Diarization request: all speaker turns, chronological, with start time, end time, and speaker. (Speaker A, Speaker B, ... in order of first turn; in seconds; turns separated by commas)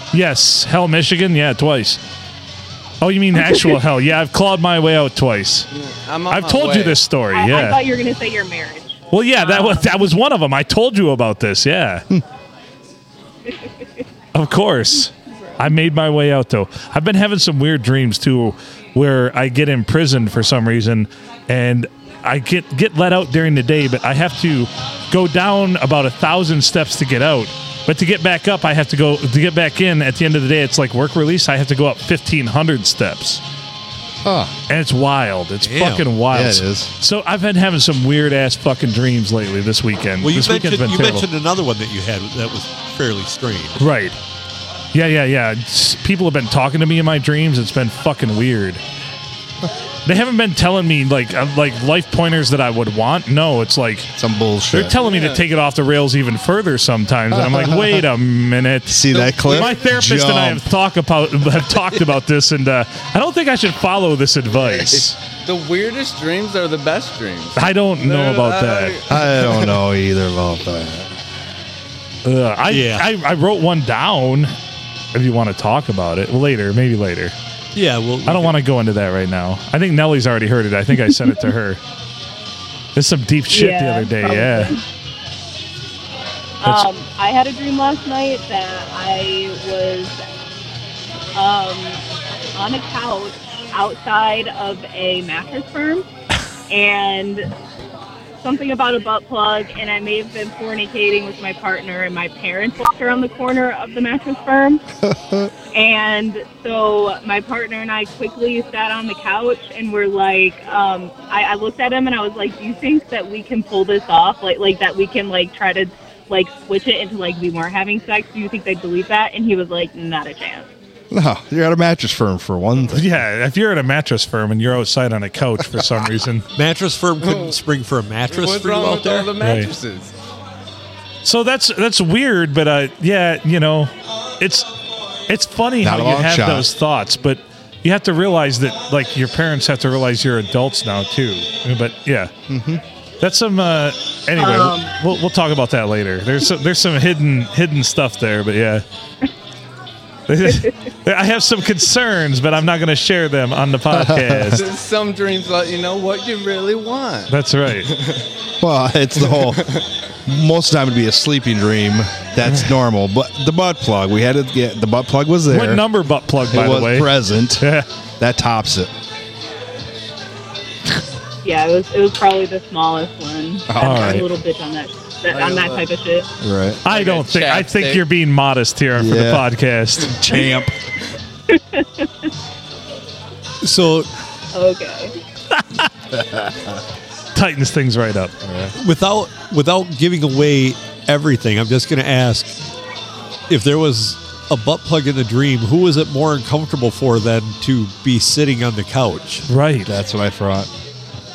Speaker A: 0.1-2.0, Speaker A: 3.0-5.7, Speaker B: 3.4-3.7, Speaker C: 5.7-7.0, Speaker A: 6.3-7.8, Speaker B: 7.3-9.9, Speaker A: 9.1-12.1, Speaker A: 14.3-33.4, Speaker D: 34.2-34.5, Speaker A: 34.7-41.2, Speaker E: 35.6-36.1, Speaker D: 36.3-36.9, Speaker E: 40.2-43.8, Speaker A: 43.8-44.1, Speaker A: 44.9-48.8, Speaker A: 50.1-54.1, Speaker D: 54.2-54.9, Speaker A: 54.7-65.2, Speaker C: 55.0-55.4, Speaker D: 58.9-60.7, Speaker C: 59.1-59.7, Speaker C: 64.6-69.4, Speaker A: 67.6-69.0, Speaker D: 69.1-71.1, Speaker A: 72.2-74.5, Speaker E: 72.7-73.1, Speaker A: 75.1-77.3, Speaker E: 77.8-78.5, Speaker A: 78.3-81.8, Speaker A: 83.0-84.8, Speaker B: 83.5-84.8, Speaker B: 86.6-90.2, Speaker B: 91.3-92.0, Speaker B: 92.5-96.1, Speaker B: 96.7-97.5, Speaker B: 98.4-104.8, Speaker D: 105.1-105.5, Speaker B: 105.7-120.7, Speaker D: 121.1-123.1, Speaker A: 122.9-126.5, Speaker E: 126.6-129.3, Speaker C: 127.2-127.5, Speaker C: 128.3-130.1, Speaker A: 129.4-129.7, Speaker A: 131.2-134.7, Speaker A: 135.3-142.3, Speaker D: 135.8-136.7, Speaker D: 142.5-142.8, Speaker A: 143.2-148.8, Speaker B: 144.4-144.9, Speaker A: 150.3-154.6, Speaker D: 153.9-154.6, Speaker C: 154.5-157.3, Speaker A: 157.3-157.9, Speaker C: 157.9-158.2, Speaker D: 158.6-159.8, Speaker C: 159.4-159.8, Speaker D: 160.3-165.8, Speaker A: 165.5-167.8, Speaker D: 166.5-167.6, Speaker D: 168.2-168.9, Speaker B: 171.4-176.3, Speaker D: 173.7-174.3, Speaker A: 173.8-174.3, Speaker C: 175.3-175.9, Speaker D: 176.4-176.8, Speaker A: 176.8-180.1, Speaker C: 176.9-178.0, Speaker D: 179.0-179.5, Speaker D: 180.0-180.7, Speaker B: 181.5-182.3, Speaker E: 183.6-184.1, Speaker B: 184.5-185.1, Speaker A: 185.5-185.9, Speaker D: 186.1-186.8, Speaker A: 187.3-188.3, Speaker D: 188.4-188.7, Speaker E: 188.8-192.5, Speaker E: 193.5-199.4, Speaker A: 199.5-199.9, Speaker D: 199.9-200.7